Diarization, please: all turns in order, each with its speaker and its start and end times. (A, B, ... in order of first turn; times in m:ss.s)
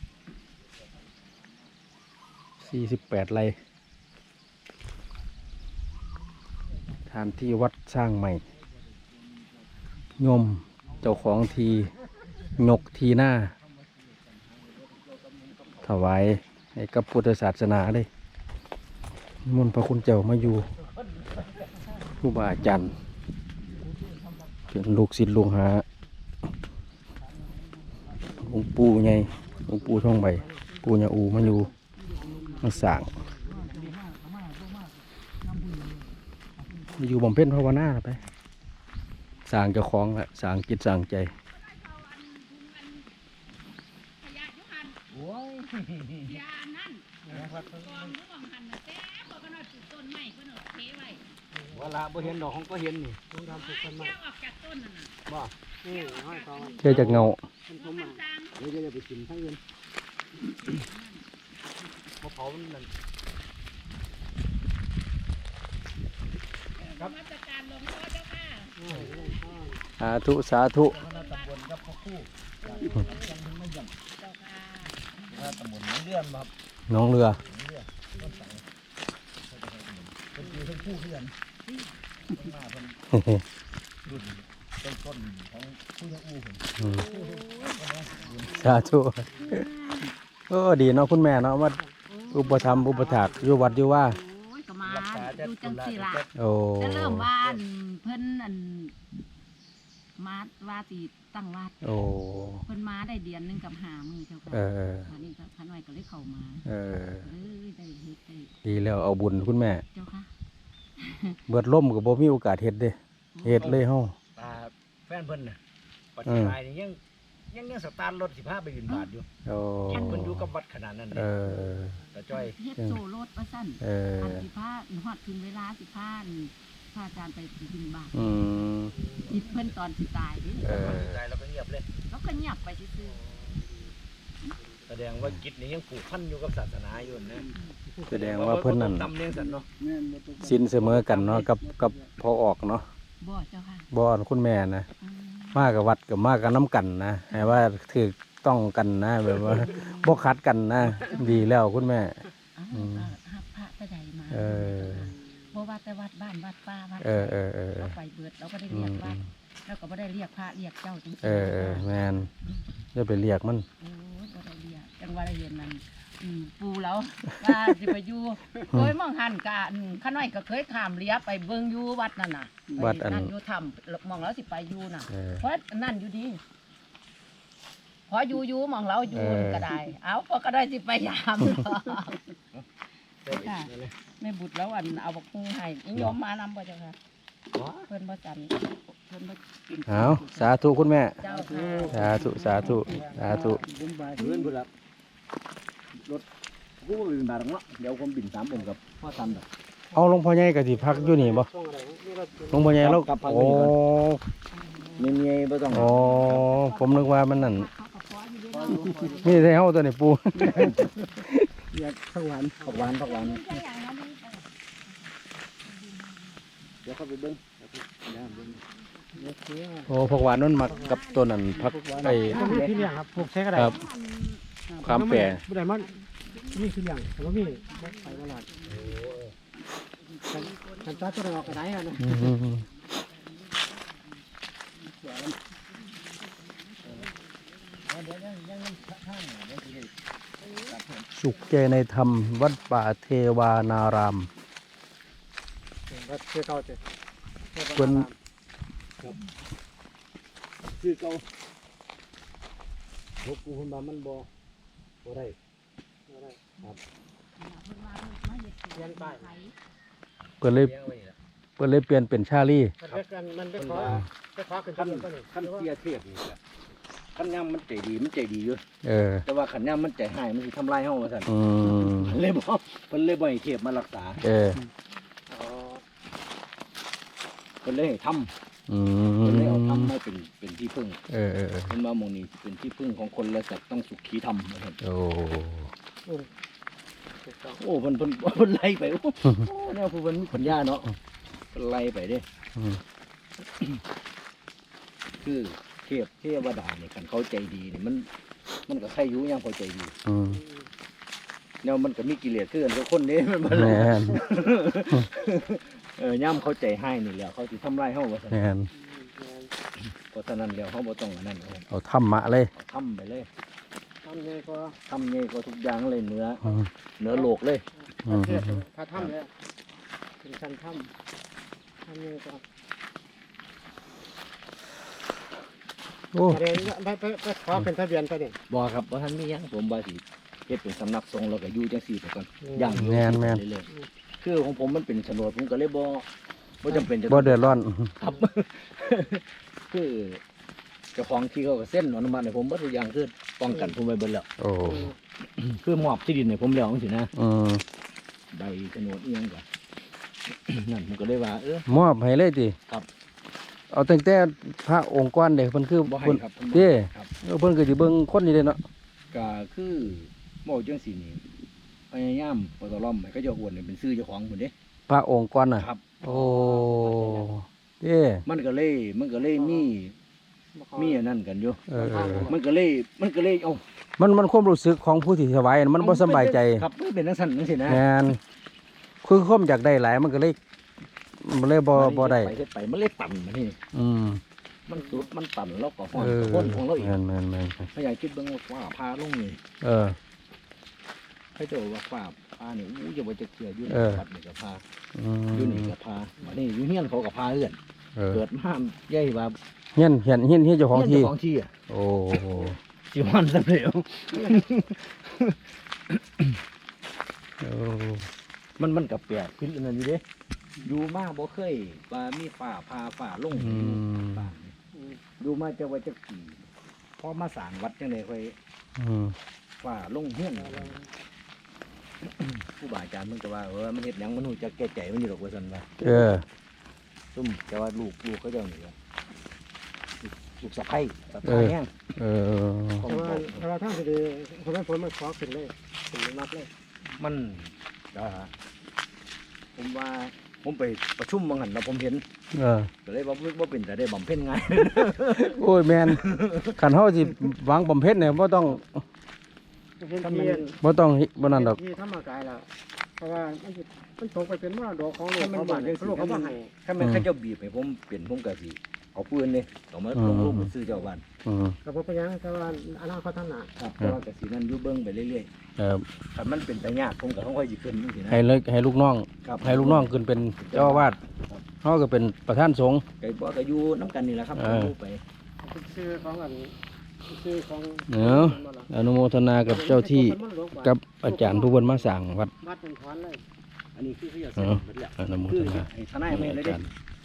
0:02.6-0:03.6 A
0:07.1-0:08.4 A
0:09.1-0:09.7 B
0:10.2-0:11.9 A
0:10.9-0:12.6 B
0:12.5-0:13.5 A
0:13.6-0:16.0 B
0:15.8-0:18.1 A
0:19.4-0:20.7 A
0:20.4-0:21.9 B
0:22.2-0:22.9 A
0:24.7-0:25.8 A
0:28.4-0:31.7 A
0:29.5-0:30.2 B
0:32.2-0:32.7 C
0:32.3-0:34.0 B
0:32.6-0:33.1 A
0:33.4-0:36.0 C
0:36.6-0:37.0 C
0:37.0-0:38.2 A
0:39.5-0:41.3 A
0:41.5-0:43.1 D
0:44.2-0:45.0 D
0:45.1-0:46.4 B
0:46.2-0:51.2 D
0:47.3-0:48.1 B
0:51.5-0:52.0 E
0:51.7-0:53.2 B
0:53.3-0:54.1 E
0:53.4-0:55.1 D
0:55.3-0:55.5 B
0:55.8-0:58.2 E
0:55.9-0:58.6 D
0:56.8-0:57.4 A
0:58.6-0:59.6 B
1:00.4-1:01.3 D
1:02.2-1:02.9 B
1:06.8-1:08.8 D
1:08.8-1:09.8 E
1:08.9-1:09.2 B
1:10.0-1:11.0 A
1:10.8-1:14.0 B
1:10.9-1:11.6 D
1:12.6-1:13.4 D
1:14.2-1:15.6 D
1:15.3-1:16.5 B
1:16.9-1:17.4 A
1:17.3-1:18.6 B
1:18.1-1:18.5 D
1:19.4-1:21.3 B
1:20.4-1:20.7 D
1:21.6-1:21.9 D
1:22.3-1:23.0 B
1:23.1-1:23.4 A
1:24.0-1:28.6 B
1:26.8-1:27.1 A
1:26.8-1:30.1 D
1:28.5-1:29.6 A
1:30.5-1:31.8 A
1:32.1-1:36.2 D
1:32.3-1:34.2 A
1:34.8-1:36.3 B
1:36.4-1:37.3 A
1:36.8-1:39.0 D
1:37.4-1:37.6 B
1:40.2-1:41.9 D
1:41.8-1:42.6 A
1:42.6-1:46.6 D
1:44.5-1:45.1 A
1:46.6-1:47.3 A
1:47.2-1:48.6 D
1:48.6-1:49.8 A
1:49.9-1:50.3 D
1:51.0-1:51.4 D
1:51.5-1:54.1 A
1:53.4-1:53.8 D
1:53.6-1:53.8 B
1:54.4-1:55.6 B
1:56.1-1:57.0 B
1:56.2-1:56.6 A
1:57.5-1:59.3 B
1:59.4-2:00.5 A
1:59.9-2:01.3 B
1:59.9-2:00.3 D
2:01.1-2:02.0 A
2:02.1-2:02.6 B
2:02.3-2:08.3 D
2:03.8-2:04.4 A
2:08.1-2:09.0 A
2:09.2-2:11.0 D
2:10.5-2:11.9 B
2:10.6-2:11.2 A
2:12.1-2:13.2 D
2:13.1-2:13.7 E
2:14.9-2:17.5 B
2:17.5-2:17.8 D
2:18.1-2:19.1 A
2:18.1-2:19.7 B
2:19.7-2:22.1 C
2:20.4-2:22.8 A
2:20.9-2:21.4 B
2:23.2-2:23.9 D
2:23.9-2:24.9 A
2:25.0-2:25.6 D
2:25.5-2:32.2 A
2:29.4-2:30.2 D
2:31.0-2:31.5 D
2:32.6-2:42.5 D
2:32.7-2:33.1 A
2:34.3-2:35.1 A
2:37.0-2:38.0 A
2:38.7-2:39.2 A
2:41.2-2:42.3 A
2:42.9-2:43.6 A
2:43.8-2:56.4 D
2:52.8-2:53.3 A
2:55.1-2:55.4 A
2:58.1-3:02.3 D
2:59.1-2:59.7 A
3:03.2-3:03.9 B
3:03.3-3:07.0 D
3:07.5-3:07.9 B
3:07.9-3:12.9 D
3:09.9-3:11.2 A
3:11.2-3:13.8 E
3:11.5-3:14.5 C
3:11.9-3:13.6 A
3:14.1-3:14.7 B
3:15.9-3:16.2 B
3:16.8-3:19.5 B
3:19.9-3:21.5 A
3:20.6-3:22.8 E
3:22.5-3:24.2 A
3:22.7-3:23.8 B
3:24.5-3:29.6 D
3:25.0-3:26.5 B
3:25.7-3:27.7 A
3:28.5-3:29.3 B
3:29.2-3:31.5 A
3:30.5-3:30.9 B
3:31.7-3:33.0 E
3:32.6-3:33.6 B
3:32.8-3:36.5 D
3:36.8-3:38.6 B
3:38.1-3:39.3 D
3:39.1-3:40.0 E
3:39.9-3:44.4 D
3:39.9-3:42.4 A
3:40.6-3:41.0 E
3:41.6-3:43.8 E
3:42.0-3:42.8 B
3:43.5-3:43.8 A
3:44.7-3:45.0 C
3:44.8-3:45.4 A
3:44.9-3:45.9 E
3:45.2-3:49.1 D
3:46.5-3:48.5 E
3:48.6-3:49.3 B
3:50.0-3:54.2 D
3:50.3-3:52.3 E
3:52.0-3:52.6 A
3:54.9-3:55.4 C
3:55.4-3:58.2 D
3:57.9-3:59.9 B
4:00.4-4:02.6 D
4:00.5-4:01.1 B
4:01.1-4:04.3 A
4:05.9-4:06.8 E
4:07.5-4:08.1 E
4:07.8-4:08.1 A
4:10.6-4:11.2 B
4:13.2-4:14.3 B
4:15.0-4:15.4 B
4:16.1-4:16.4 E
4:17.4-4:19.5 D
4:18.7-4:19.3 E
4:20.4-4:20.7 A
4:20.4-4:21.2 B
4:21.6-4:22.7 A
4:22.8-4:25.7 E
4:23.6-4:24.1 B
4:24.7-4:26.4 B
4:27.1-4:28.6 B
4:28.8-4:29.2 A
4:29.3-4:34.2 B
4:31.3-4:32.2 A
4:34.2-4:34.6 A
4:35.3-4:35.8 E
4:37.6-4:38.3 B
4:38.7-4:39.9 A
4:39.2-4:41.0 B
4:41.1-4:41.7 A
4:41.7-4:44.8 B
4:44.8-4:45.7 A
4:47.2-4:47.6 E
4:47.6-4:50.9 B
4:51.5-4:52.2 B
4:52.6-4:52.8 A
4:53.4-4:53.8 B
4:55.2-4:58.1 B
4:58.7-4:59.9 B
5:00.1-5:00.4 A
5:00.3-5:00.7 E
5:01.6-5:08.5 B
5:03.4-5:04.2 A
5:08.3-5:08.7 A
5:08.7-5:09.5 E
5:09.8-5:11.6 B
5:11.7-5:12.5 A
5:12.6-5:13.3 B
5:14.0-5:14.8 E
5:14.9-5:17.6 B
5:17.1-5:19.3 E
5:18.0-5:18.6 A
5:20.2-5:20.9 E
5:21.9-5:22.4 E
5:26.1-5:26.6 A
5:26.3-5:28.4 E
5:28.5-5:33.7 B
5:32.4-5:32.9 E
5:32.7-5:33.4 A
5:34.2-5:36.1 B
5:36.6-5:40.2 B
5:37.1-5:37.9 A
5:40.9-5:44.3 B
5:44.4-5:44.9 A
5:44.6-5:44.9 E
5:45.2-5:47.1 B
5:47.1-5:47.6 A
5:48.3-5:49.4 B
5:50.3-5:51.6 B
5:51.7-5:52.6 A
5:53.7-5:58.6 A
5:55.8-5:57.1 B
5:59.1-6:01.2 B
6:01.9-6:04.5 B
6:04.9-6:08.2 A
6:05.6-6:07.3 B
6:06.0-6:07.2 E
6:08.3-6:09.9 B
6:09.4-6:09.7 E
6:10.6-6:11.0 E
6:10.8-6:11.6 B
6:11.7-6:12.3 A
6:11.7-6:12.4 E
6:12.2-6:13.6 B
6:14.0-6:16.6 A
6:15.8-6:17.8 B
6:17.7-6:18.2 A
6:19.0-6:20.4 A
6:21.2-6:22.4 A
6:21.7-6:23.6 B
6:23.7-6:24.2 A
6:24.7-6:26.9 B
6:25.9-6:27.7 A
6:27.6-6:29.4 B
6:29.6-6:30.0 A
6:31.4-6:34.6 B
6:33.7-6:34.0 A
6:34.9-6:35.7 A
6:35.3-6:37.6 B
6:38.0-6:38.2 A
6:38.1-6:39.4 B
6:39.8-6:41.1 A
6:40.7-6:41.5 B
6:41.7-6:42.6 A
6:42.9-6:46.4 B
6:47.4-6:48.1 A
6:48.6-6:50.0 B
6:50.6-6:54.6 B
6:53.3-6:54.3 A
6:54.7-6:55.0 E
6:55.2-6:56.4 B
6:57.0-6:58.4 B
6:58.8-6:59.1 A
6:59.6-7:00.8 B
7:00.4-7:00.9 E
7:02.0-7:05.9 B
7:05.8-7:06.2 A
7:07.1-7:08.8 B
7:10.0-7:11.7 B
7:11.2-7:12.9 A
7:12.8-7:13.4 B
7:12.8-7:16.5 E
7:16.9-7:18.3 B
7:19.6-7:22.0 B
7:22.3-7:22.7 A
7:22.8-7:26.6 B
7:25.1-7:28.8 A
7:29.8-7:30.6 E
7:30.1-7:30.4 B
7:30.6-7:31.6 A
7:31.2-7:36.5 E
7:35.2-7:41.0 B
7:36.8-7:37.1 A
7:39.9-7:40.5 A
7:41.2-7:41.6 A
7:41.6-7:43.5 E
7:43.6-7:45.3 B
7:45.6-7:45.8 A
7:46.1-7:48.2 B
7:48.1-7:51.0 A
7:49.2-7:51.4 B
7:51.6-7:52.8 A
7:53.0-7:55.0 B
7:54.4-7:54.7 A
7:55.4-7:56.6 E
7:57.1-7:58.7 E
7:57.9-8:02.3 A
7:59.4-8:03.2 E
8:03.8-8:06.7 B
8:04.4-8:06.7 A